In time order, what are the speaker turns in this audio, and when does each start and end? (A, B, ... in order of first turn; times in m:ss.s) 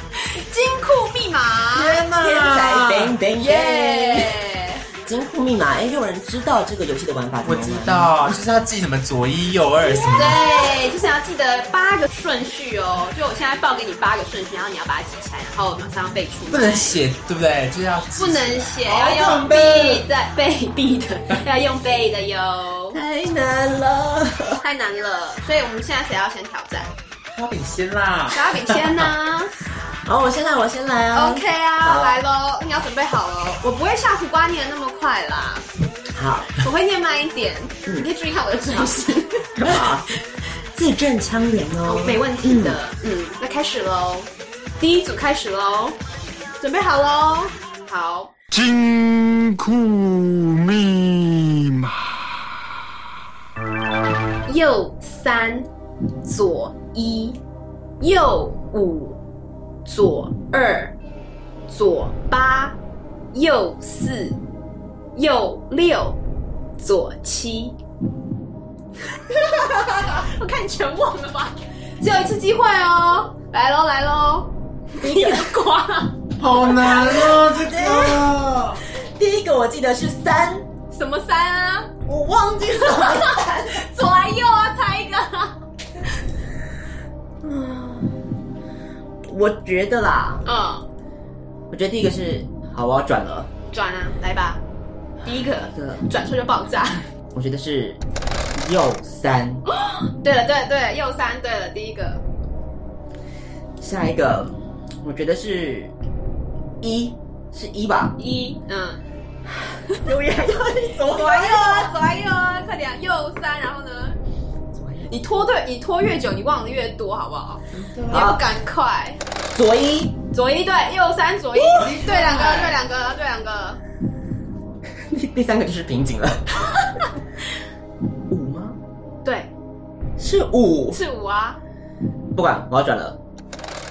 0:00.3-0:02.0 A
0:01.7-0:03.2 B
0:02.2-0:04.4 C
0:03.4-0:04.9 A
0:05.0-0:08.4 C
0:07.4-0:10.4 B
0:10.2-0:17.0 A
0:16.5-0:20.0 B
0:18.2-0:23.0 A
0:22.9-0:24.6 C
0:24.6-0:26.9 A
0:27.4-0:28.9 B
0:28.3-0:29.5 A
0:30.1-0:32.2 C
0:31.1-0:35.7 A
0:36.1-0:36.5 C
0:36.6-0:39.8 A
0:39.6-0:40.1 C
0:40.7-0:42.8 C
0:41.8-0:46.0 A
0:46.6-0:48.3 A
0:48.5-0:52.4 D
0:54.5-0:55.7 A
0:56.2-0:57.4 A
0:58.0-0:59.2 A
0:59.8-1:01.0 A
1:01.7-1:02.8 A
1:03.3-1:04.4 A
1:05.2-1:06.2 A
1:06.8-1:07.8 A
1:09.1-1:16.2 A
1:15.0-1:15.5 C
1:16.4-1:18.8 B
1:16.9-1:18.3 C
1:19.0-1:20.7 C
1:20.9-1:21.9 A
1:22.1-1:23.8 C
1:22.9-1:25.6 A
1:27.4-1:28.2 C
1:29.3-1:30.4 C
1:30.4-1:30.8 A
1:31.7-1:33.5 C
1:33.7-1:34.6 A
1:35.2-1:37.0 A
1:35.7-1:36.0 C
1:37.3-1:38.0 C
1:38.5-1:39.6 C
1:40.1-1:42.2 A
1:43.8-1:45.9 C
1:46.8-1:48.2 C
1:48.2-1:49.0 A
1:49.5-1:51.9 C
1:51.1-1:54.2 A
1:54.7-1:55.2 C
1:55.1-1:59.2 A
1:57.9-1:58.4 C
1:59.5-2:00.2 C
2:00.3-2:03.8 A
2:01.6-2:02.0 C
2:01.8-2:02.8 B
2:05.1-2:06.6 C
2:08.3-2:08.8 C
2:09.2-2:09.5 A
2:10.2-2:11.0 C
2:10.9-2:11.6 A
2:12.3-2:13.2 C